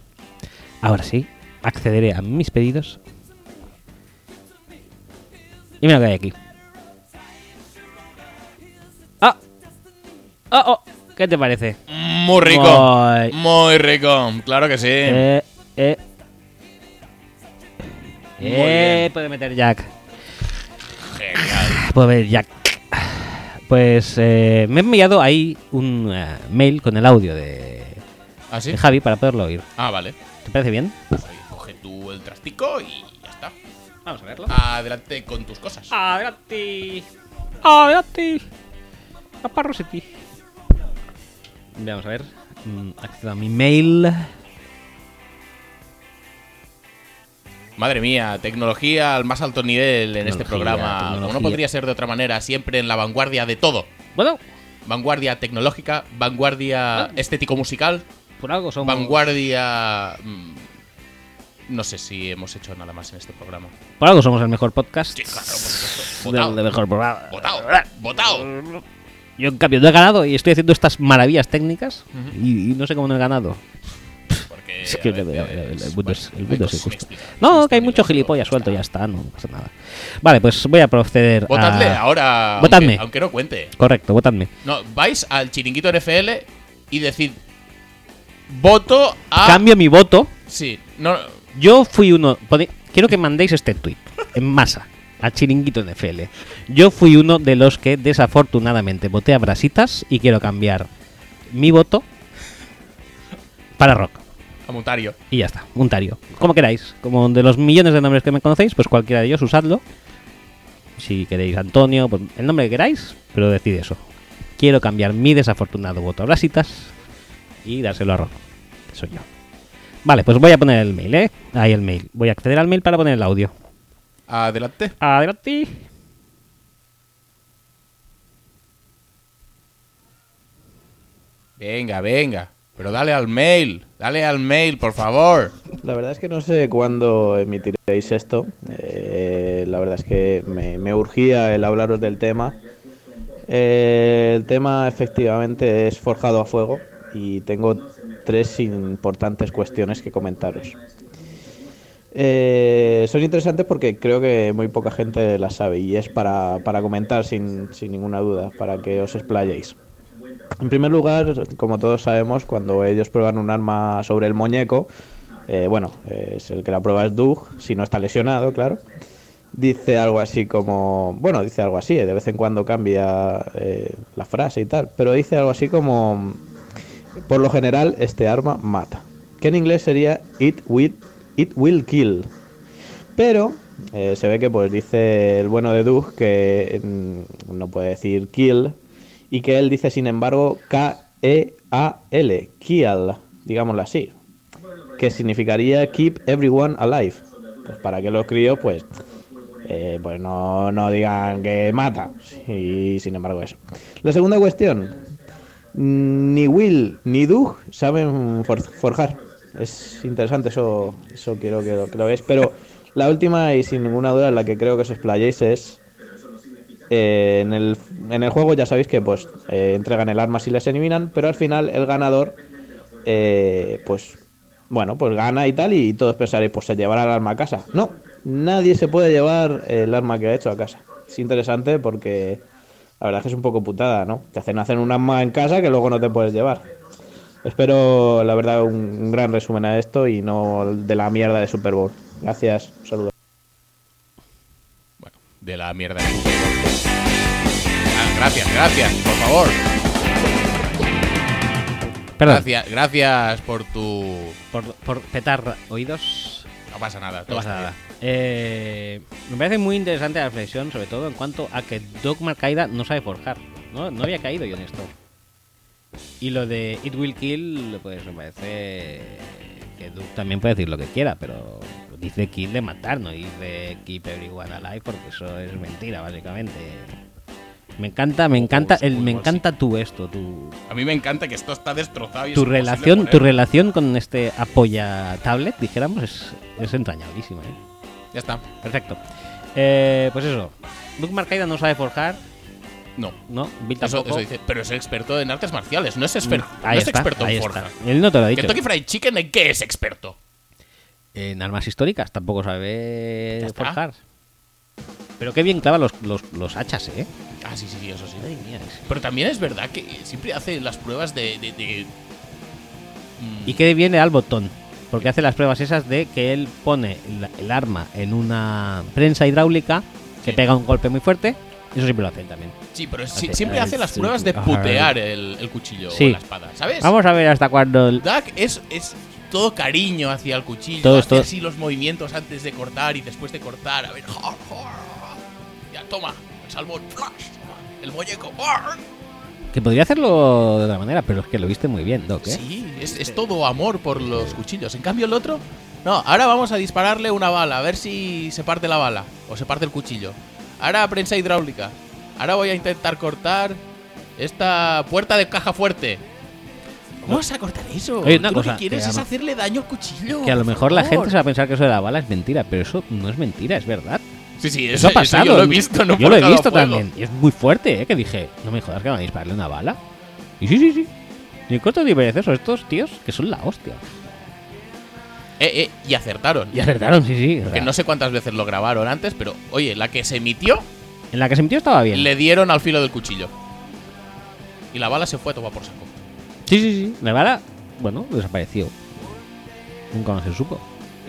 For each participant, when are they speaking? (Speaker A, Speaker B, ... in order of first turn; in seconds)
Speaker A: 0.8-3.0, 5.8-6.4, 10.5-11.8, 12.4-13.3, 15.1-16.0, 18.4-19.9, 21.4-28.0, 28.7-29.7, 30.4-31.0, 34.0-34.5, 35.9-37.1, 37.6-38.5, 39.4-40.1, 41.7-44.3, 50.2-51.6, 54.2-54.4, 58.4-59.2, 64.0-68.8, 69.4-73.6, 74.3-82.0, 82.6-83.0, 83.8-84.5, 89.4-90.3, 91.5-100.9, 101.5-102.1, 103.8-104.2, 105.3-109.8, 111.0-114.0, 114.6-116.9, 117.7-118.4, 118.9-119.3, 120.0-123.5, 125.0-125.8, 252.2-252.5, 254.5-256.5, 257.3-264.9, 266.2-277.0, 277.8-280.6, 282.4-287.6, 288.6-289.0, 289.6-292.2, 293.3-294.2, 296.2-298.6, 301.1-304.0, 305.2-307.1, 308.2-308.9, 313.4-322.6, 323.1-324.9, 325.9-326.2, 326.8-328.0, 330.8-331.3, 339.5-343.2, 358.0-359.1, 360.1-364.0, 364.8-369.8, 370.4-370.9, 371.5-373.8, 376.5-377.7, 381.1-382.1, 386.5-389.2, 389.9-390.7
Speaker B: 11.9-15.3, 18.4-19.1, 21.0-21.8, 28.5-28.8, 29.8-30.2, 31.1-33.6, 34.5-35.9, 47.8-53.9, 54.9-58.1, 58.8-60.7, 61.7-63.8, 65.2-66.6, 67.3-68.5, 74.5-78.8, 81.5-83.7, 84.6-87.4, 88.5-89.6, 90.5-91.4, 104.7-105.2, 124.3-125.0, 131.6-135.6, 245.0-246.8, 247.8-249.6, 252.2-254.4, 256.7-257.7, 278.4-279.4, 280.7-283.3, 288.1-288.4, 293.8-297.7, 298.3-300.2, 303.4-303.8, 307.4-308.3, 308.9-311.9, 313.2-313.6, 322.7-326.9, 328.0-338.8, 342.2-353.6, 354.2-356.0, 357.0-361.2, 364.4-366.9, 375.4-376.7, 377.5-380.7, 381.9-383.3, 384.7-385.9
Speaker C: 135.8-142.6, 143.5-150.8, 152.1-159.8, 160.6-164.9, 165.5-168.8, 169.5-176.4, 177.3-182.3, 183.2-188.8, 189.3-194.2, 195.0-198.9, 199.7-205.0, 205.7-215.8, 216.9-222.4, 223.1-224.2, 224.7-232.4, 233.0-236.7, 237.4-243.1